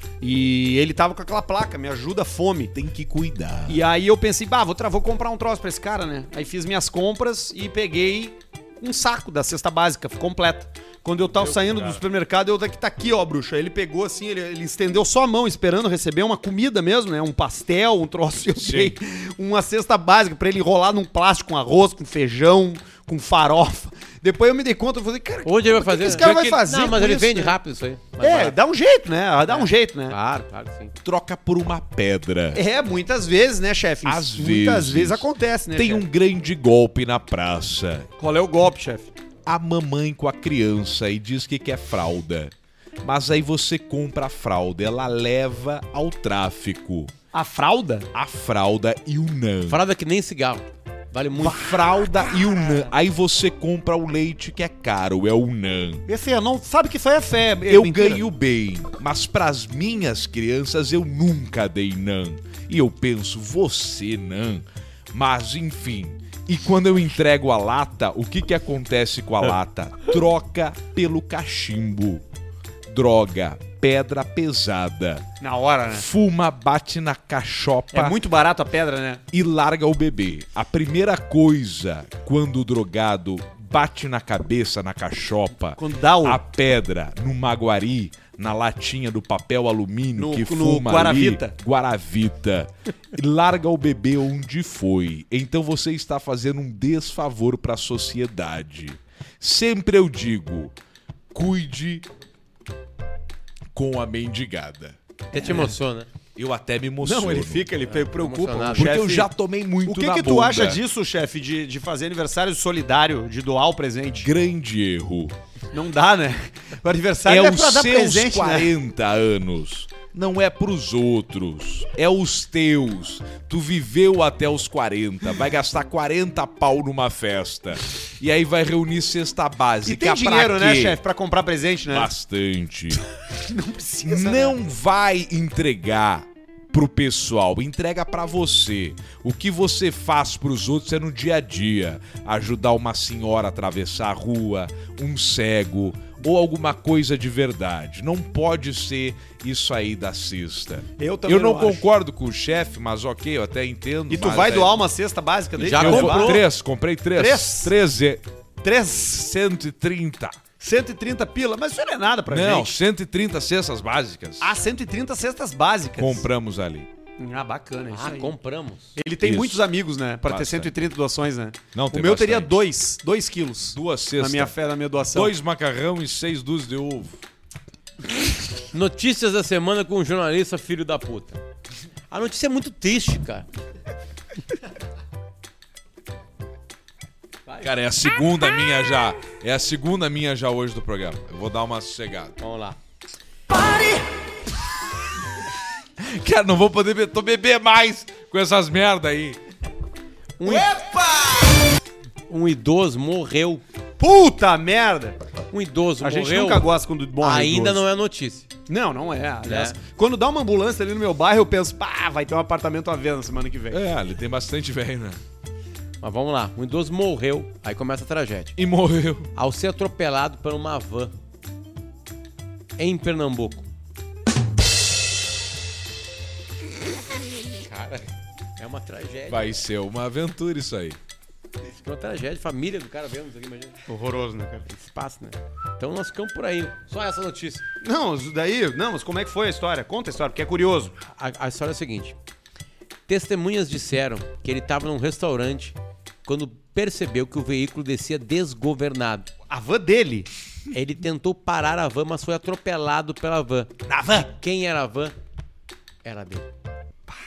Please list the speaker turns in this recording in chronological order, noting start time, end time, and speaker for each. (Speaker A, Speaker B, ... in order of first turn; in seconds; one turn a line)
Speaker A: 0.2-2.7
Speaker B: 2.8-3.8
Speaker A: 3.7-27.6
Speaker C: 11.4-12.0
Speaker B: 18.6-18.9
Speaker C: 25.4-28.6
Speaker A: 28.2-30.2
Speaker C: 29.5-30.9
Speaker B: 31.1-32.6
Speaker A: 32.5-36.1
Speaker B: 34.0-38.1
Speaker A: 38.2-39.1
Speaker B: 39.5-47.1
Speaker A: 47.3-48.1
Speaker B: 48.1-49.8
Speaker C: 49.7-51.7
Speaker B: 51.4-56.0
Speaker A: 56.1-58.2
Speaker B: 57.7-72.2
Speaker B: 72.9-75.2
Speaker A: 75.4-76.1
Speaker B: 75.9-78.2
Speaker A: 77.9-79.2
Speaker B: 79.3-100.7
Speaker A: 85.8-86.4
Speaker A: 90.2-91.5
Speaker B: 101.3-102.0
Speaker B: 103.7-105.0
Speaker C: 105.3-106.1
Speaker A: 105.3-105.8
Speaker B: 106.3-107.9
Speaker A: 107.0-109.3
Speaker C: 107.9-109.0
Speaker B: 108.6-110.8
Speaker A: 109.8-114.3
Speaker B: 114.2-115.3
Speaker A: 115.7-118.7
Speaker B: 117.3-131.0
Speaker A: 129.8-132.1
Speaker B: 131.9-133.0
Speaker A: 133.5-134.6
Speaker B: 134.0-154.8
Speaker A: 151.0-151.8
Speaker A: 154.1-156.4
Speaker C: 155.6-156.5
Speaker B: 155.8-158.2
Speaker A: 157.2-157.7
Speaker A: 158.6-159.2
Speaker B: 159.1-160.4
Speaker A: 160.6-162.8
Speaker B: 162.3-164.5
Speaker A: 164.4-166.2
Speaker B: 166.0-166.9
Speaker A: 167.2-168.3
Speaker C: 167.9-168.9
Speaker A: 169.0-175.3
Speaker B: 169.2-169.7
Speaker B: 170.3-170.8
Speaker B: 171.7-172.6
Speaker B: 173.7-174.6
Speaker B: 175.1-177.2
Speaker C: 178.7-181.4
Speaker C: 182.1-183.5
Speaker B: 187.6-192.4
Speaker C: 192.4-192.8
Speaker B: 196.0-199.4
Speaker C: 200.4-200.7
Speaker B: 200.5-200.8
Speaker C: 202.3-203.6
Speaker A: 204.0-205.2
Speaker C: 205.5-208.5
Speaker A: 206.0-207.8
Speaker A: 208.7-213.8
Speaker C: 209.4-209.8
Speaker B: 213.7-215.2
Speaker C: 216.0-218.6
Speaker B: 218.6-219.3
Speaker C: 219.4-221.1
Speaker C: 222.8-223.7
Speaker C: 227.6-229.6
Speaker B: 229.3-231.0
Speaker C: 231.7-233.8
Speaker A: 233.9-234.7
Speaker C: 234.7-237.6
Speaker A: 237.8-240.9
Speaker C: 241.1-242.2
Speaker C: 243.1-249.3
Speaker A: 249.5-250.3
Speaker C: 250.7-255.2
Speaker A: 253.9-254.2
Speaker C: 256.0-256.5